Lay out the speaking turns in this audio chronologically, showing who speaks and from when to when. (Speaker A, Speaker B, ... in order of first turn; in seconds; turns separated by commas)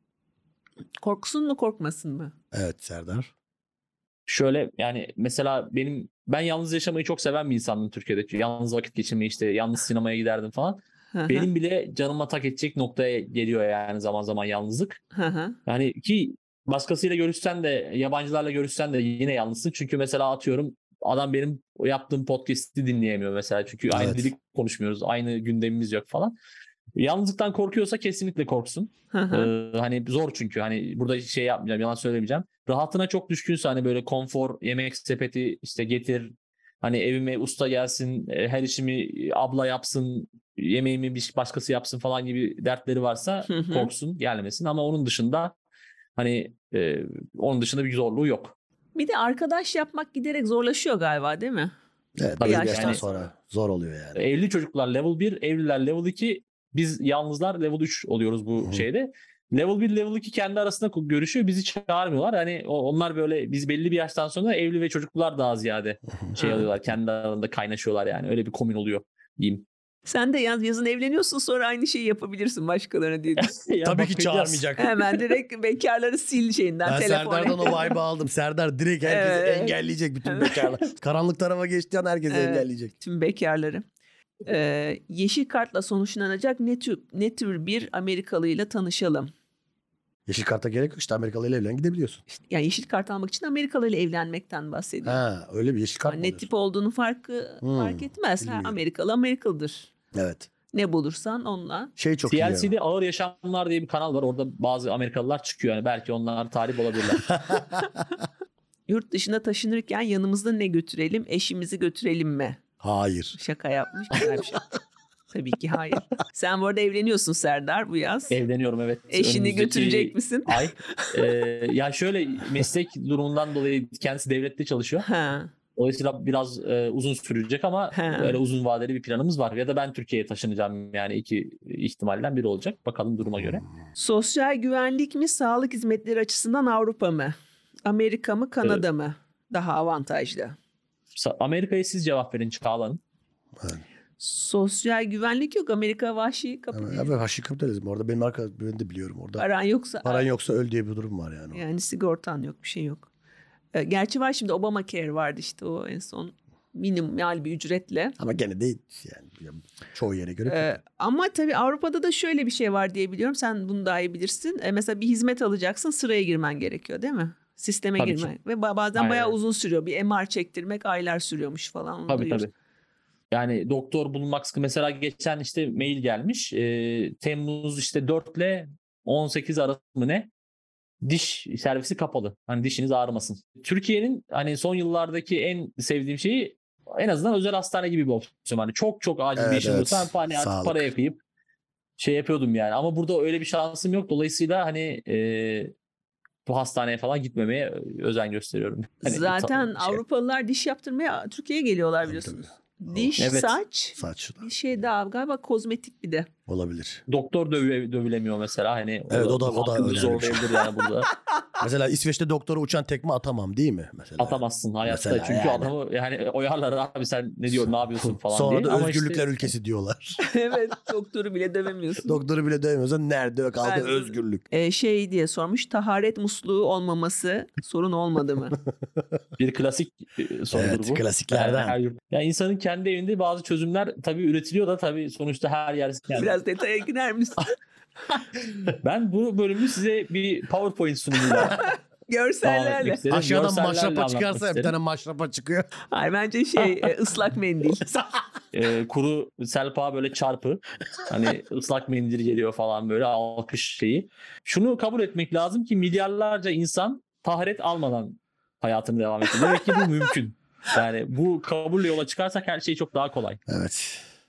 Speaker A: 1.0-2.3, Speaker B: 2.5-3.3, Speaker C: 4.3-15.0, Speaker A: 11.1-11.5, Speaker A: 15.1-15.6, Speaker C: 15.7-26.3, Speaker B: 23.9-24.3, Speaker C: 26.9-45.5, Speaker A: 29.1-29.5, Speaker A: 43.5-43.9, Speaker C: 46.2-48.5, Speaker A: 48.9-51.7, Speaker B: 52.2-54.2, Speaker A: 52.4-53.0, Speaker C: 52.4-53.2, Speaker C: 54.1-69.6, Speaker A: 66.3-66.7, Speaker A: 70.0-73.5, Speaker C: 73.4-74.8, Speaker B: 73.8-74.9, Speaker A: 74.8-78.0, Speaker B: 76.8-82.9, Speaker A: 79.0-80.7, Speaker A: 82.3-83.8, Speaker A: 84.5-89.3, Speaker B: 90.3-92.2, Speaker A: 92.3-95.2, Speaker B: 95.0-96.5, Speaker A: 96.1-99.9, Speaker B: 97.6-98.8, Speaker B: 100.1-100.5, Speaker A: 100.7-101.9, Speaker B: 102.0-102.7, Speaker C: 102.3-107.4, Speaker B: 107.3-107.9, Speaker A: 108.9-112.6, Speaker B: 112.8-113.3, Speaker A: 113.3-114.7, Speaker A: 115.3-118.3, Speaker C: 118.3-125.1, Speaker A: 119.1-121.2, Speaker A: 125.0-125.5, Speaker C: 125.8-133.6, Speaker A: 127.9-128.4, Speaker A: 133.9-140.6, Speaker C: 141.1-143.0, Speaker B: 143.6-143.8, Speaker A: 144.2-147.1, Speaker B: 146.7-149.4, Speaker A: 149.4-150.2, Speaker B: 150.0-151.6, Speaker A: 151.5-153.1, Speaker A: 153.7-158.2, Speaker B: 158.2-160.8, Speaker A: 160.4-172.5, Speaker C: 168.0-168.3, Speaker C: 168.9-169.3, Speaker C: 172.1-172.5, Speaker C: 173.3-180.3, Speaker C: 181.0-191.2, Speaker B: 189.3-190.9, Speaker C: 192.0-195.7, Speaker C: 196.4-200.0, Speaker A: 199.0-206.3, Speaker B: 202.0-203.2, Speaker C: 203.2-203.6, Speaker B: 204.0-204.5, Speaker B: 206.5-207.0, Speaker C: 207.1-211.1, Speaker B: 209.1-210.6, Speaker B: 211.6-215.7, Speaker C: 214.2-219.4, Speaker B: 218.0-220.2, Speaker A: 220.2-222.2, Speaker B: 222.0-224.4, Speaker A: 223.6-228.6, Speaker C: 229.4-236.3, Speaker B: 230.5-231.8, Speaker A: 236.1-237.5, Speaker C: 238.6-241.6, Speaker A: 241.2-243.0, Speaker C: 242.4-244.7, Speaker B: 243.1-245.7, Speaker A: 245.9-247.9, Speaker C: 248.5-263.4, Speaker B: 263.5-264.0